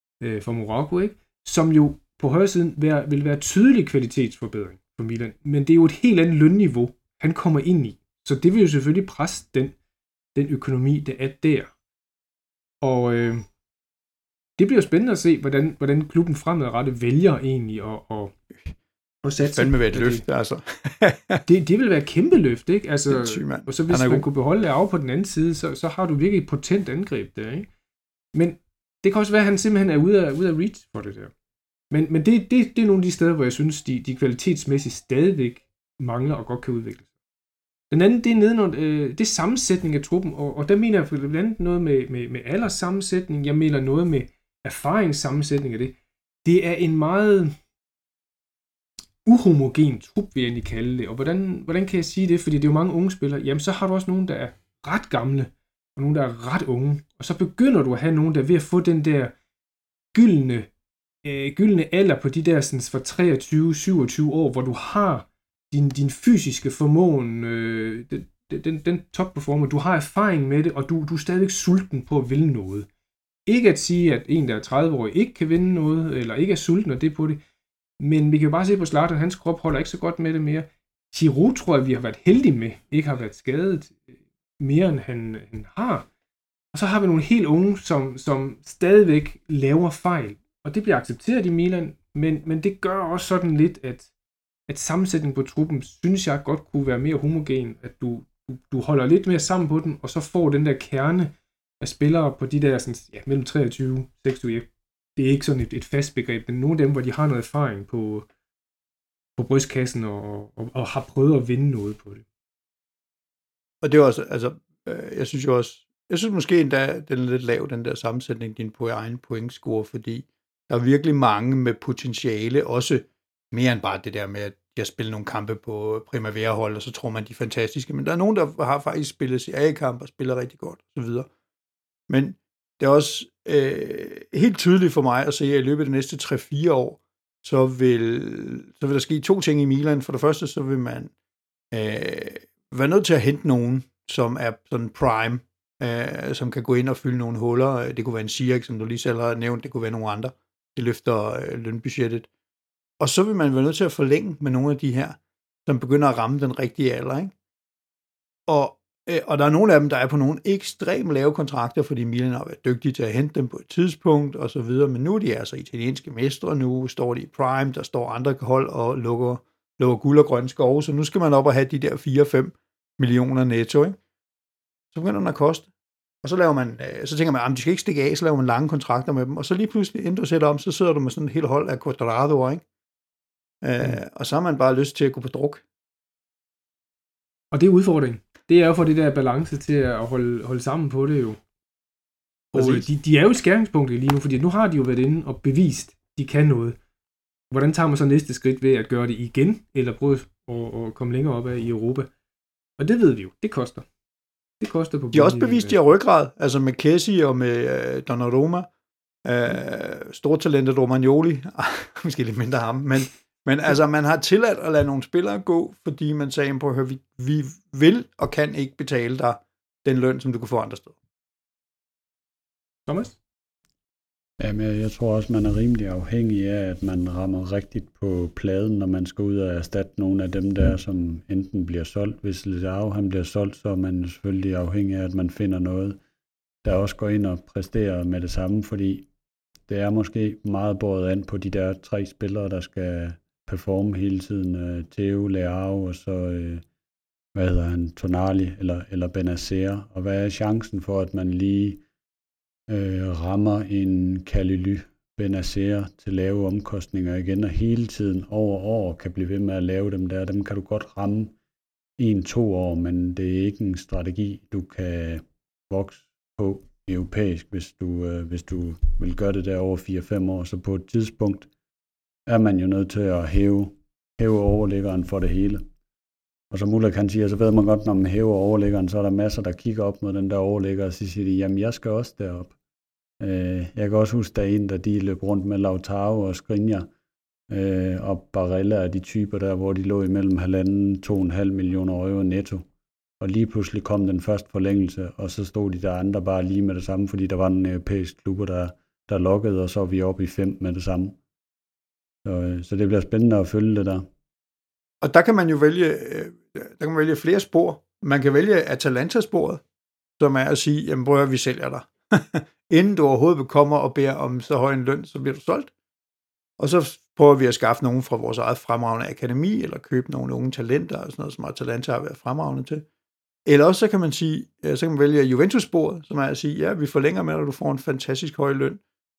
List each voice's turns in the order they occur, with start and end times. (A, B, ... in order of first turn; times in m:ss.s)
0:00.2-0:09.7 A
0:10.3-0:11.7 A
0:12.8-0:13.4 A
0:14.6-0:18.3 A
0:19.2-0:20.2 A
0:19.4-0:21.4 B
0:21.4-0:27.7 A
0:23.1-0:24.2 B
0:28.3-0:31.3 A
0:31.9-0:37.1 A
0:37.9-0:47.5 A
0:49.2-0:59.3 A
1:00.1-1:00.7 A
1:01.2-1:12.9 A
1:13.5-1:17.4 A
1:18.0-1:24.0 A
1:24.6-1:26.0 A
1:26.7-1:34.1 A
1:34.7-1:48.3 A
1:49.4-1:52.2 A
1:53.8-2:11.3 B
2:12.1-2:21.1 B
2:21.7-2:32.3 B
2:33.0-2:37.3 B
2:38.5-2:54.0 B
2:54.9-2:55.7 B
2:56.2-3:02.6 B
3:03.6-3:05.6 B
3:07.5-3:11.4 A
3:12.5-3:12.8 B
3:12.5-3:16.8 A
3:17.5-3:22.1 A
3:22.8-3:23.8 A
3:24.6-3:25.8 A
3:25.1-3:28.7 B
3:29.2-3:41.0 B
3:42.9-3:43.2 A
3:44.4-3:56.0 C
3:56.6-3:59.1 C
3:59.7-4:06.6 C
4:07.3-4:11.8 C
4:12.7-4:21.3 C
4:22.0-4:31.5 C
4:32.3-4:35.6 C
4:36.5-4:42.5 C
4:43.2-4:46.9 C
4:47.5-4:52.6 C
4:53.2-5:01.2 C
5:02.2-5:04.1 C
5:05.0-5:09.6 B
5:10.2-5:15.7 B
5:16.6-5:22.8 B
5:23.4-5:28.8 B